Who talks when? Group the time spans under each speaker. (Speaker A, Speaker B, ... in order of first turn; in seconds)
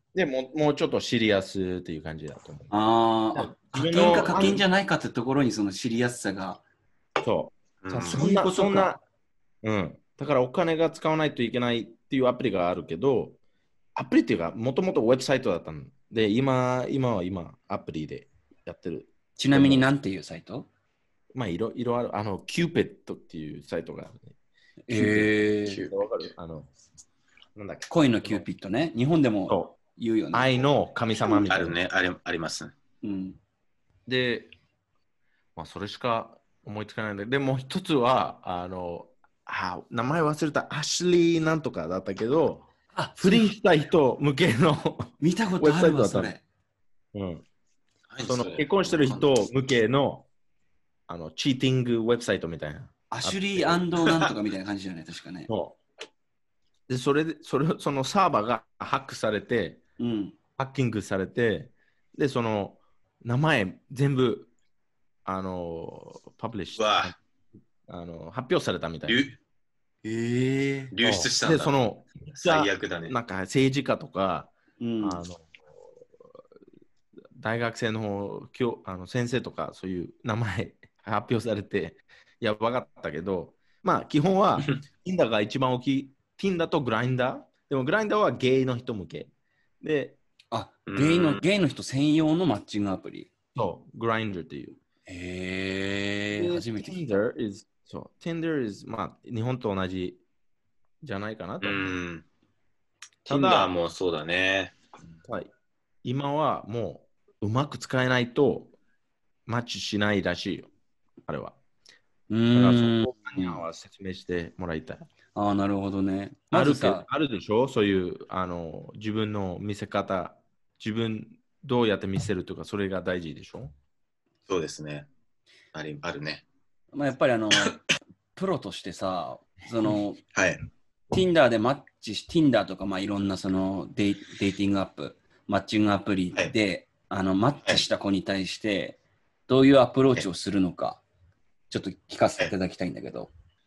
Speaker A: 0.1-2.7, 3.3-4.6, 7.2-9.0, 9.6-13.4, 13.9-19.9, 21.3-24.3, 24.9-25.3, 25.8-26.7, 27.6-28.4, 29.5-29.8, 30.3-31.8, 34.0-34.5, 35.5-46.3, 47.1-47.4, 48.2-50.2, 51.1-53.9, 55.5-55.8, 56.9-59.8, 60.6-64.5, 65.2-67.2, 67.9-69.2, 71.0-75.5, 77.3-90.2, 93.5-94.8, 96.3-100.2, 101.0-102.0, 103.3-103.7, 105.2-105.5, 106.0-108.7, 109.5-110.7, 111.3-111.5, 112.5-115.1, 116.5-123.7
Speaker B: 2.7-6.6, 7.9-8.9, 19.4-20.7, 24.9-25.8, 27.9-30.6, 33.0-33.4, 42.9-43.5, 45.2-46.4, 53.1-55.5, 60.0-60.3, 70.0-70.9, 74.8-75.2, 90.5-93.3, 95.1-97.0, 112.3-113.6, 115.3-117.1, 126.9-127.8, 128.3-130.2, 131.1-141.0, 141.7-143.3
Speaker C: 4.0-4.2, 7.8-8.2, 25.6-26.3, 31.2-32.7, 48.1-49.3, 66.8-67.1, 69.1-69.3, 70.9-71.7, 72.3-73.1, 90.9-91.4, 101.6-102.2, 103.2-104.8, 124.5-125.1, 125.7-126.4, 130.3-130.6